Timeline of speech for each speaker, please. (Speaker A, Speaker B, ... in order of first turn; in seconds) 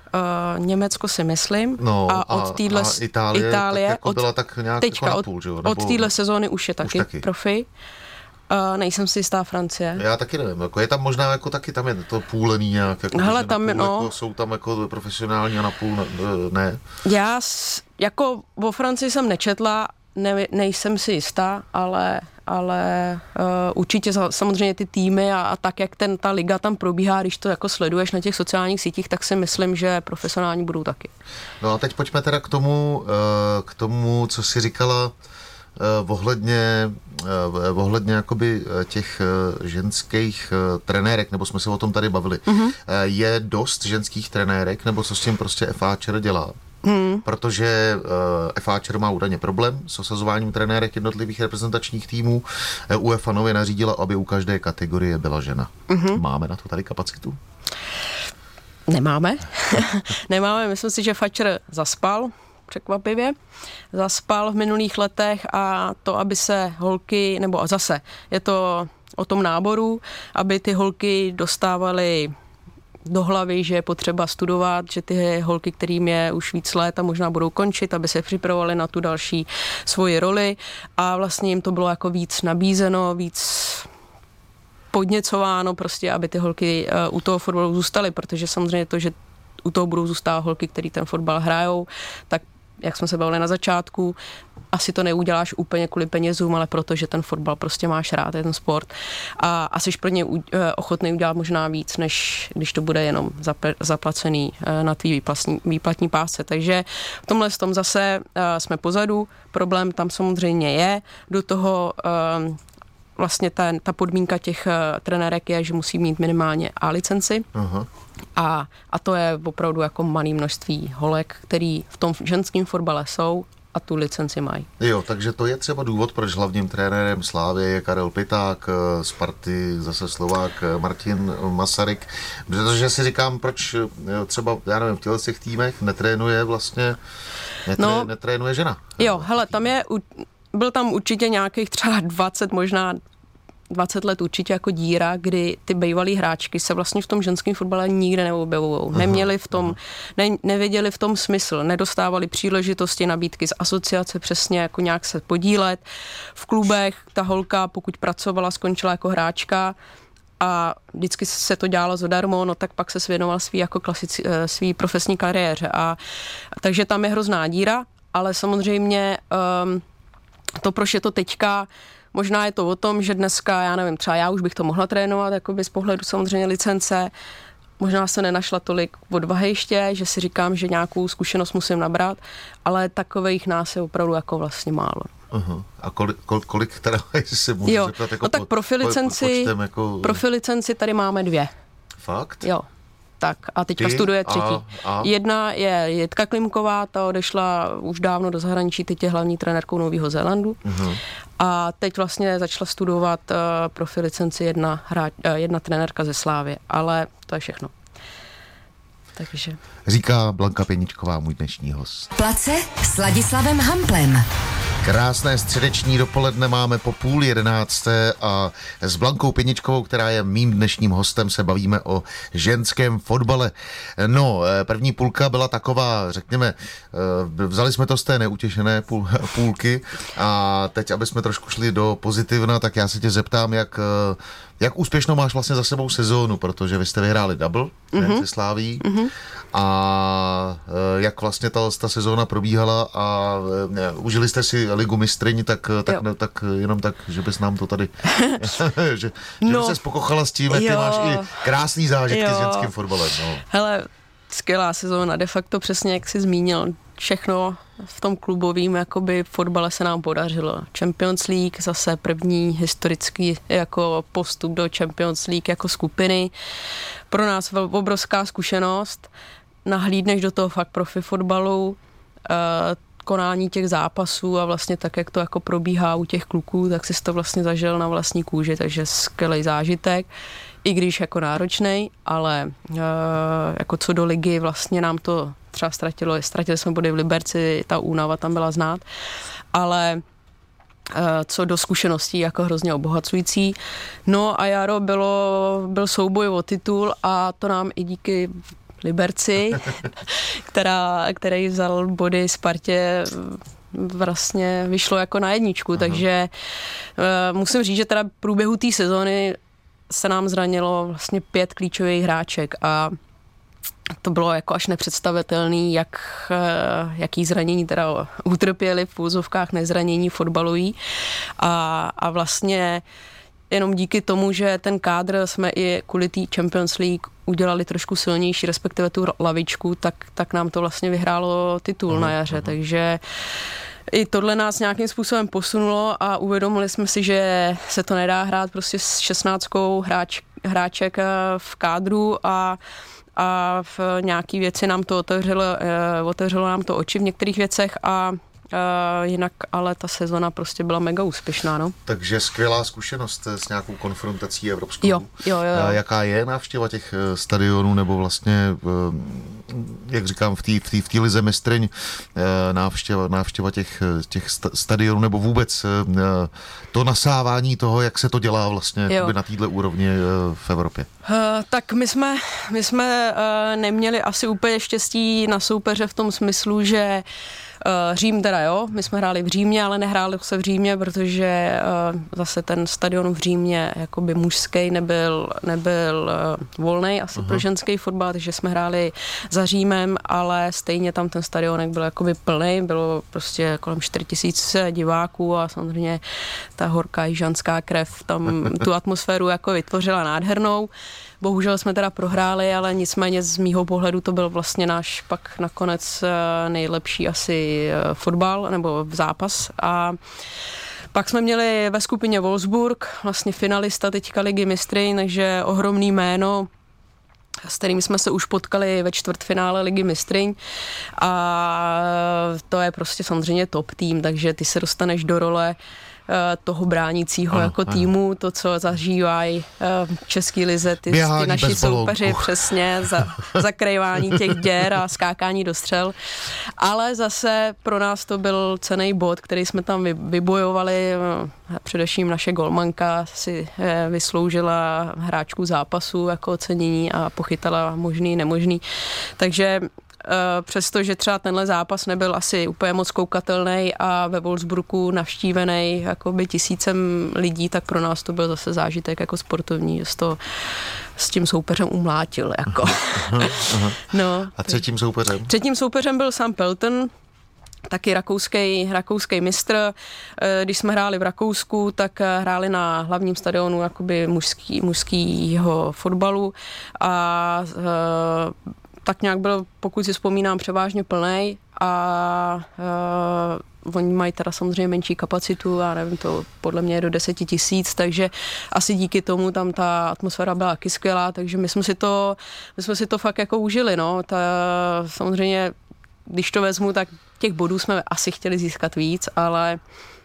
Speaker A: 0.1-4.2, 4.8-7.7, 8.5-10.0, 13.1-14.1, 17.1-31.1, 42.5-42.8, 46.8-47.2, 55.9-56.2, 58.9-63.4, 63.9-72.3, 73.1-83.9, 84.9-94.2, 94.7-112.6, 113.2-117.5, 118.4-124.7, 137.8-138.1, 139.0-143.0, 143.7-155.8, 156.3-159.8, 160.4-166.0, 166.6-169.8, 170.6-177.1, 177.8-185.1, 187.6-191.5, 193.2-200.6, 201.4-207.7, 209.2-209.6, 237.9-238.2, 238.8-239.1, 248.1-248.5, 249.4-249.8, 250.5-251.5, 252.1-252.7, 253.5-266.3, 267.1-269.1, 269.7-280.1, 280.6-288.8, 289.5-290.0, 290.9-293.6, 294.1-306.3, 307.0-309.4, 309.9-312.9, 314.0-320.8, 321.4-322.8, 323.5-333.0, 333.9-342.6, 343.2-351.8, 354.8-355.8, 368.9-369.2, 371.0-377.0, 377.6-396.0, 396.6-400.7, 401.2-410.0, 410.9-416.5, 417.4-420.4, 421.0-425.6, 426.1-435.9, 436.6-448.6, 449.2-460.2, 461.0-464.6, 465.2-466.9, 467.7-495.5, 496.1-499.6
Speaker B: 1.8-6.1, 6.8-7.2, 10.0-16.8, 31.6-35.1, 35.8-46.6, 47.2-57.4, 117.5-117.9, 124.8-137.0, 137.7-139.7, 148.9-149.8, 185.3-190.2, 192.0-192.5, 193.8-195.1, 200.6-201.0, 209.9-212.1, 214.8-238.9, 239.5-253.4, 305.8-306.0, 331.9-332.5, 351.9-370.9, 387.2-387.4, 427.3-427.9, 430.9-433.4, 434.1-434.4, 462.9-465.3
Speaker C: 212.2-214.2